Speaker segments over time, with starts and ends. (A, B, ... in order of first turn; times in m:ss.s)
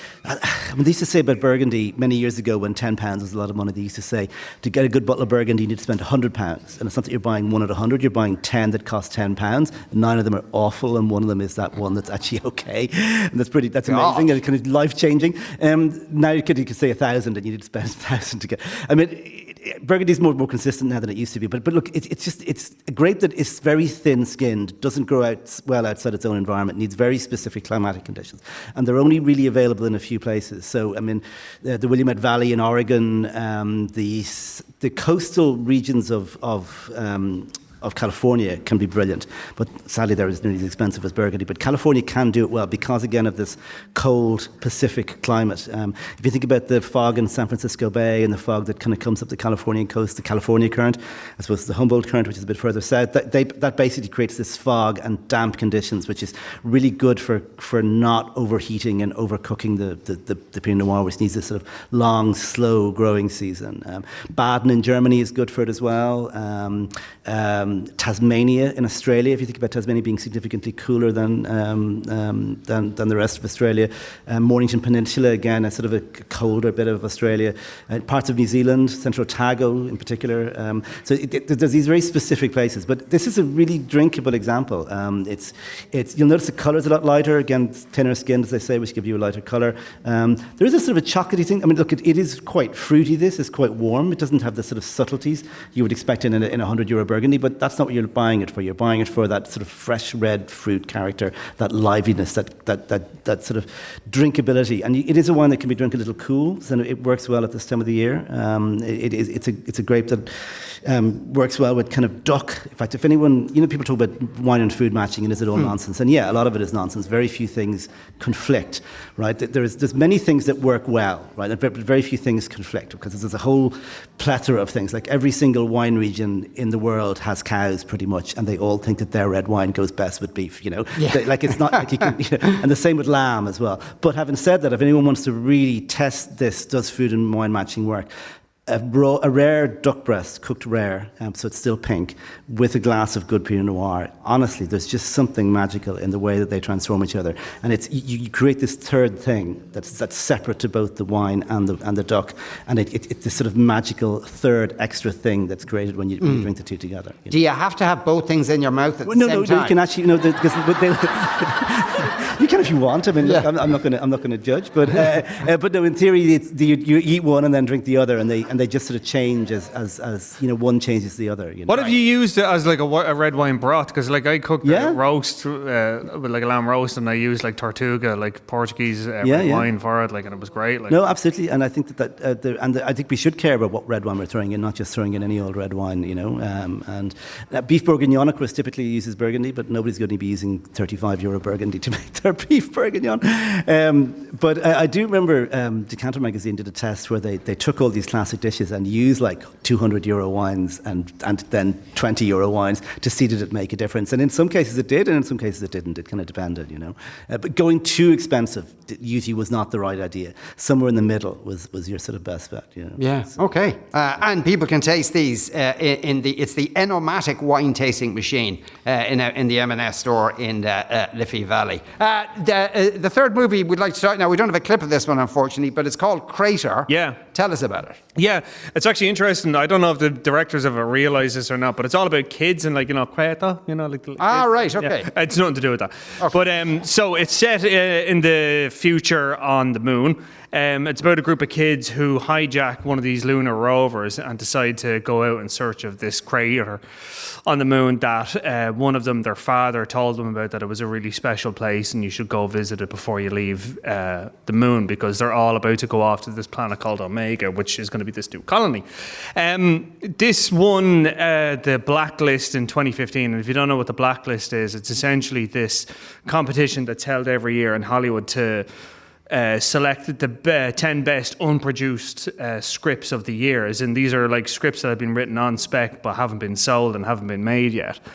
0:00.2-2:18.1 A
0:13.8-0:14.3 B
2:11.0-2:11.8 B
2:18.6-2:37.4 A
2:36.2-2:36.5 B
2:37.3-2:39.7 B
2:39.0-2:52.0 A
2:51.7-3:01.0 C
2:54.6-2:55.0 A
2:59.2-2:59.7 A
3:00.9-3:33.1 A
3:33.0-3:48.0 B
3:46.9-3:47.2 C
3:48.2-4:28.6 C
3:54.2-3:55.1 B
4:29.3-4:38.0 C